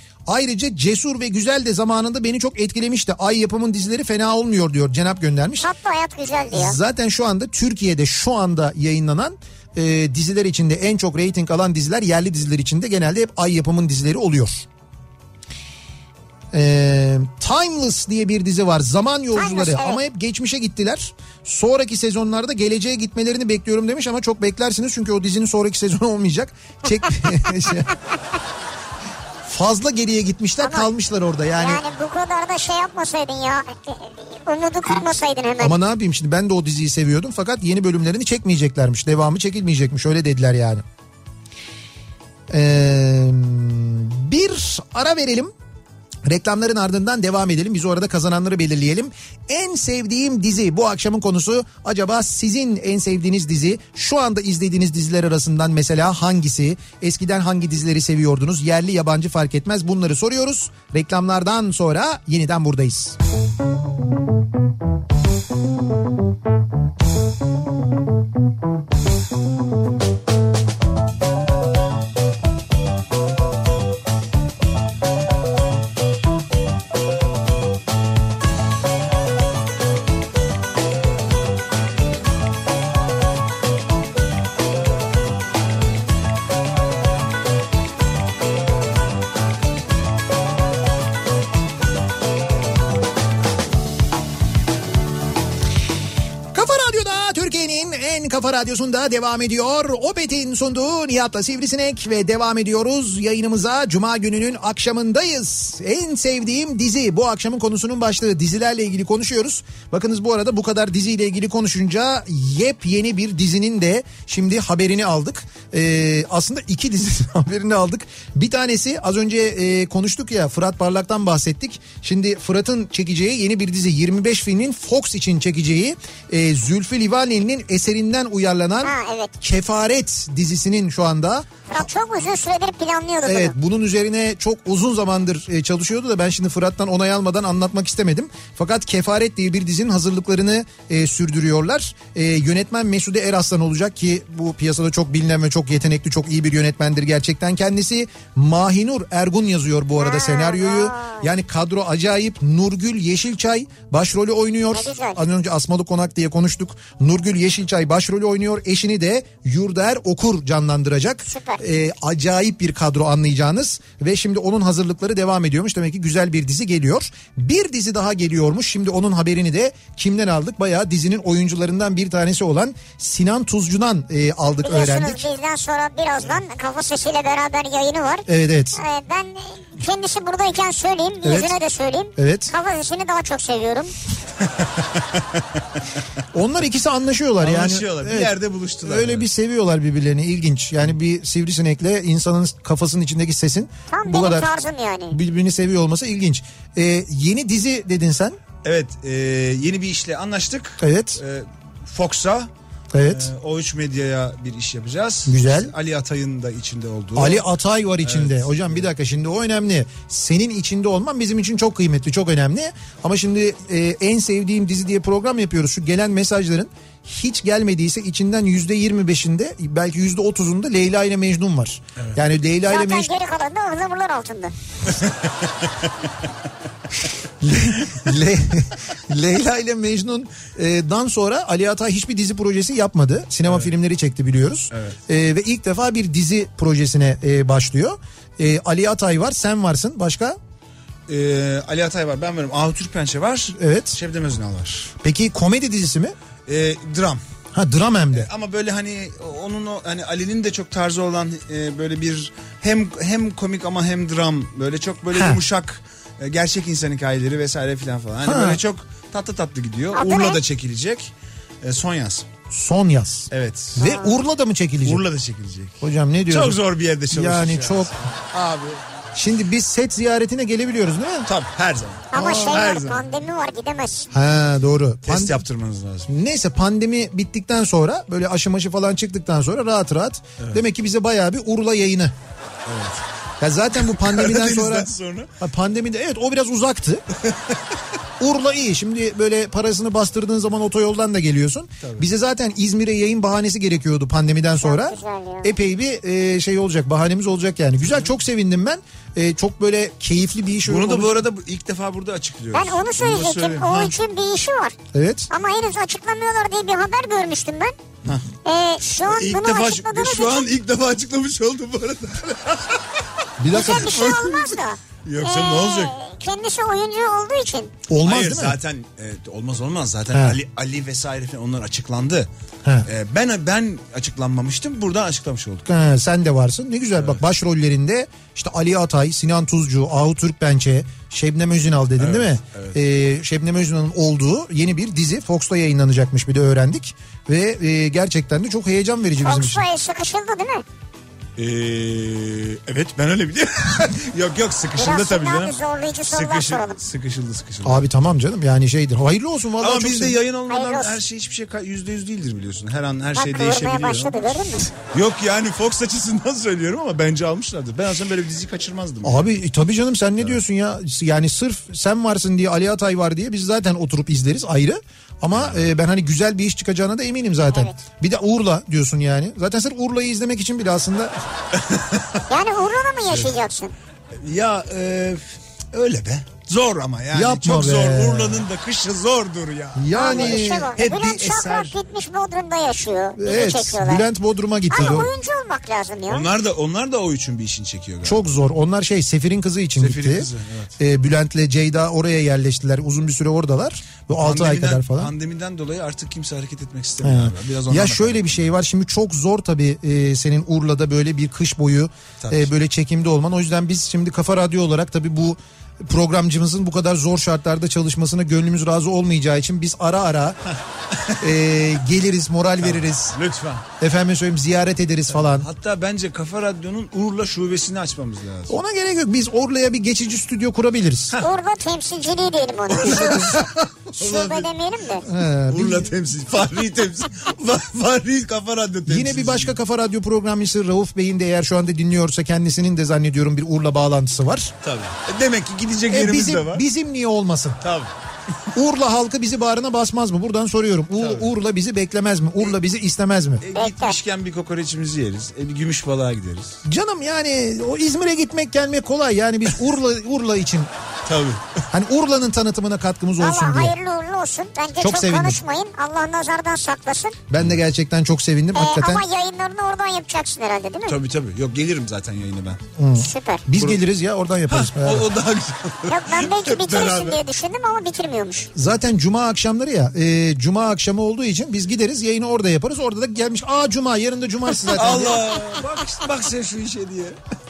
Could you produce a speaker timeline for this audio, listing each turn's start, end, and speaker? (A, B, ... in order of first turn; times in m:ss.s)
0:00.3-0:05.7 A
0:05.6-0:06.8 B
0:06.5-0:14.6 A
0:16.5-0:27.9 A
0:19.3-0:20.0 B
0:29.5-0:31.8 A
0:30.6-0:30.9 B
0:31.6-0:35.8 B
0:35.6-0:40.8 A
0:42.5-0:45.5 A
0:46.2-1:03.2 A
1:36.5-2:11.9 A
2:08.8-2:09.4 B
2:11.7-2:13.5 B
2:13.2-2:55.3 A
2:30.0-2:31.3 B
2:34.7-2:35.2 B
2:41.2-2:41.6 B
2:54.6-3:03.9 B
2:58.3-2:58.8 A
3:01.2-3:01.5 A
3:02.2-3:02.5 A
3:04.4-3:05.2 C
3:06.3-3:14.5 A
3:07.4-3:09.3 C
3:13.9-3:15.2 B
3:15.1-3:18.4 A
3:18.6-3:22.5 C
3:20.8-3:21.2 A
3:22.9-3:23.3 A
3:23.1-3:27.5 C
3:25.2-3:25.7 A
3:27.1-3:43.1 A
3:28.0-3:28.9 C
3:42.7-3:44.5 B
3:44.9-3:45.3 C
3:47.4-4:00.4 A
3:54.7-3:55.0 C
4:01.1-4:04.9 C
4:03.6-4:04.0 A
4:05.0-4:06.1 A
4:06.4-4:07.2 C
4:07.5-4:08.3 A
4:08.1-4:21.1 C
4:15.1-4:15.4 A
4:18.2-4:18.6 A
4:19.9-4:20.4 B
4:21.6-4:22.2 C
4:22.5-4:25.0 A
4:23.3-4:23.8 C
4:23.8-4:24.2 B
4:24.8-4:28.8 C
4:25.8-4:27.9 A
4:29.1-4:31.3 A
4:31.2-4:33.0 C
4:32.1-4:34.1 B
4:32.1-4:32.6 A
4:34.1-4:35.4 A
4:35.0-4:36.1 C
4:36.1-4:42.1 A
4:42.6-4:43.0 C
4:43.4-4:47.0 A
4:43.8-4:45.3 C
4:48.2-5:01.1 A
4:51.8-4:52.1 C
4:54.6-4:55.5 B
5:00.6-5:03.9 C
5:02.5-5:04.8 B
5:04.9-5:05.3 A
5:05.3-5:07.8 B
5:08.4-5:10.5 B
5:09.0-5:13.0 C
5:13.4-5:14.0 A
5:13.5-5:17.7 B
5:13.5-5:15.9 C
5:17.9-5:18.6 A
5:18.0-5:22.3 C
5:20.1-5:20.4 A
5:22.8-5:25.6 C
5:25.6-5:39.6 A
5:32.0-5:32.8 C
5:39.2-5:40.6 B
5:41.4-5:45.6 C
5:44.7-5:46.8 B
5:46.1-5:47.8 C
5:47.6-5:50.2 A
5:49.6-5:54.2 C
5:50.5-5:51.0 B
5:53.1-5:54.7 B
5:54.7-5:59.2 C
5:59.0-6:11.1 A
6:05.3-6:05.7 C
6:07.5-6:07.8 B
6:11.6-6:12.2 C
6:12.3-6:13.7 B
6:14.1-6:21.7 C
6:17.1-6:18.5 A
6:19.7-6:20.8 A
6:19.9-6:24.0 B
6:23.2-6:25.1 A
6:24.7-6:26.3 B
6:26.1-6:28.3 C
6:28.0-6:35.1 A
6:29.8-6:30.7 C
6:34.1-6:38.5 C
6:37.0-6:50.4 A
6:42.2-6:42.5 C
6:51.2-6:53.2 A
6:52.6-6:53.6 C
6:53.8-6:55.5 A
6:55.1-6:58.6 C
6:58.5-7:01.2 A
7:01.2-7:03.3 B
7:02.8-7:03.4 C
7:02.8-7:03.7 A
7:04.0-7:04.5 C
7:04.0-7:05.0 B
7:05.0-7:05.9 A
7:05.5-7:09.6 C
7:08.8-7:14.5 A
7:14.6-7:16.6 C
7:15.9-7:17.6 A
7:17.6-7:17.9 C
7:18.5-7:23.4 A
7:21.0-7:21.3 C
7:23.4-7:26.6 C
7:23.5-7:24.0 B
7:26.6-7:30.7 A
7:31.0-7:31.5 C
7:31.7-7:33.7 A
7:33.2-7:37.2 B
7:34.8-7:35.4 A
7:37.3-7:39.0 A
7:38.5-7:41.0 B
7:40.8-7:42.6 C
7:42.8-7:45.1 A
7:43.0-7:43.5 B
7:43.5-7:43.8 C
7:44.5-7:47.2 C
7:45.8-7:48.5 B
7:48.5-7:55.2 A
7:54.7-7:57.2 C